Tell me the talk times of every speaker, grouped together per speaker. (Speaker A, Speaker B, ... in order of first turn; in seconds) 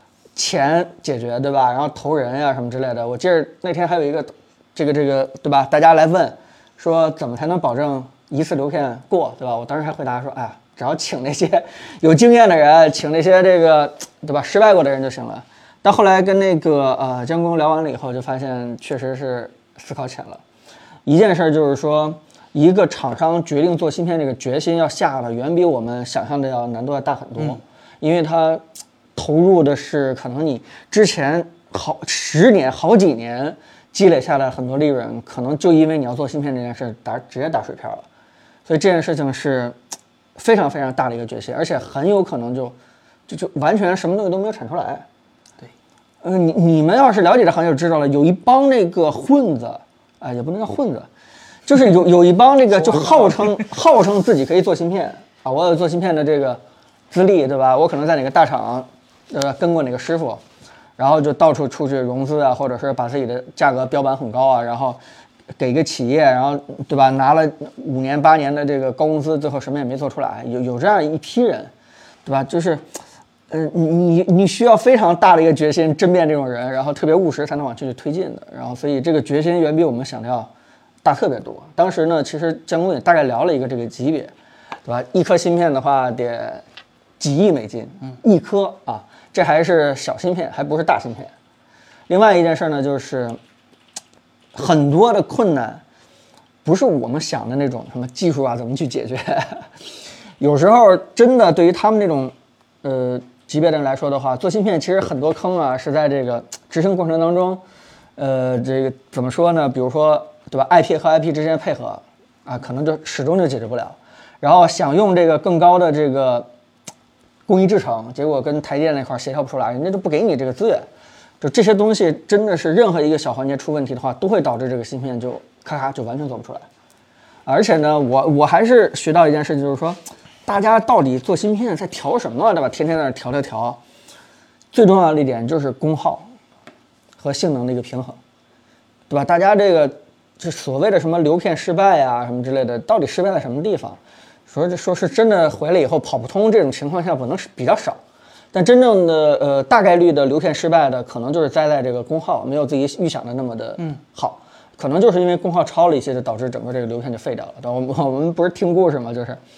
Speaker A: 0.3-20.4, 21.1-28.6, 29.1-38.0, 38.6-39.8, 40.4-42.8, 43.3-45.0, 46.2-51.1, 51.6-60.4, 61.0-65.0, 65.5-71.7, 72.2-72.8, 73.5-80.5, 81.0-84.3, 84.8-86.6, 87.2-91.3, 92.1-93.4, 94.5-95.8, 96.6-99.7, 100.4-107.6, 108.2-116.5, 117.5-120.9, 121.4-126.7, 127.5-133.8, 134.7-136.3, 137.2-138.2, 139.1-148.0, 148.5-159.4